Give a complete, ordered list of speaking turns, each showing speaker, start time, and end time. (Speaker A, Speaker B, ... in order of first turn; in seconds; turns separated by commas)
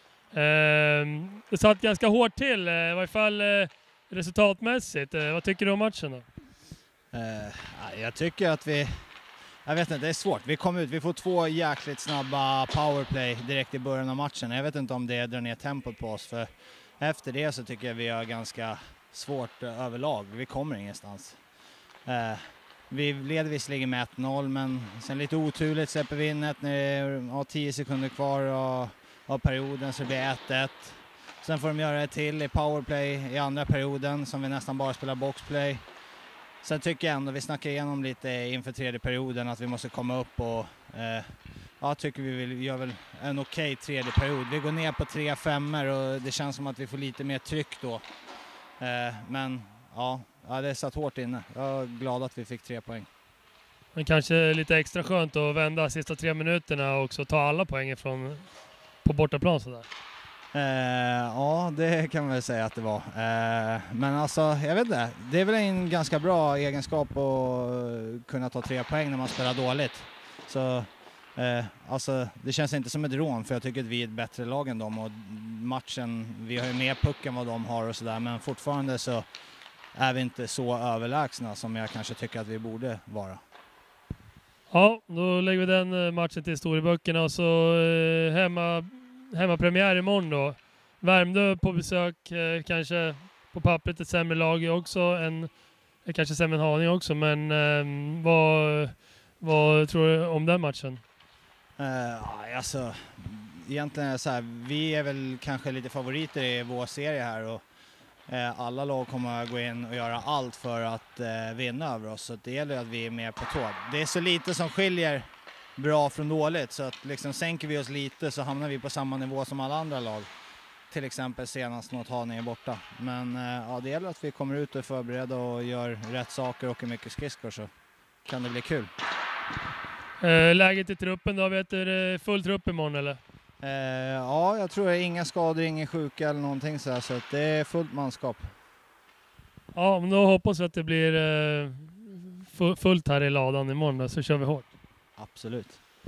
Speaker A: 0.3-6.2, Speaker B: 7.1-9.0, Speaker B: 9.6-21.4, Speaker B: 22.0-35.8, Speaker B: 36.6-48.0, Speaker B: 48.8-53.1, Speaker A: 53.9-58.5, Speaker A: 59.0-59.9, Speaker B: 60.5-79.2, Speaker B: 79.9-83.4, Speaker A: 84.7-101.0, Speaker B: 101.8-107.6, Speaker B: 108.3-115.2, Speaker B: 115.8-120.3, Speaker B: 120.9-127.7, Speaker B: 128.2-128.9, Speaker A: 130.2-133.2, Speaker B: 133.6-138.5, Speaker A: 139.7-144.7, Speaker B: 145.2-145.8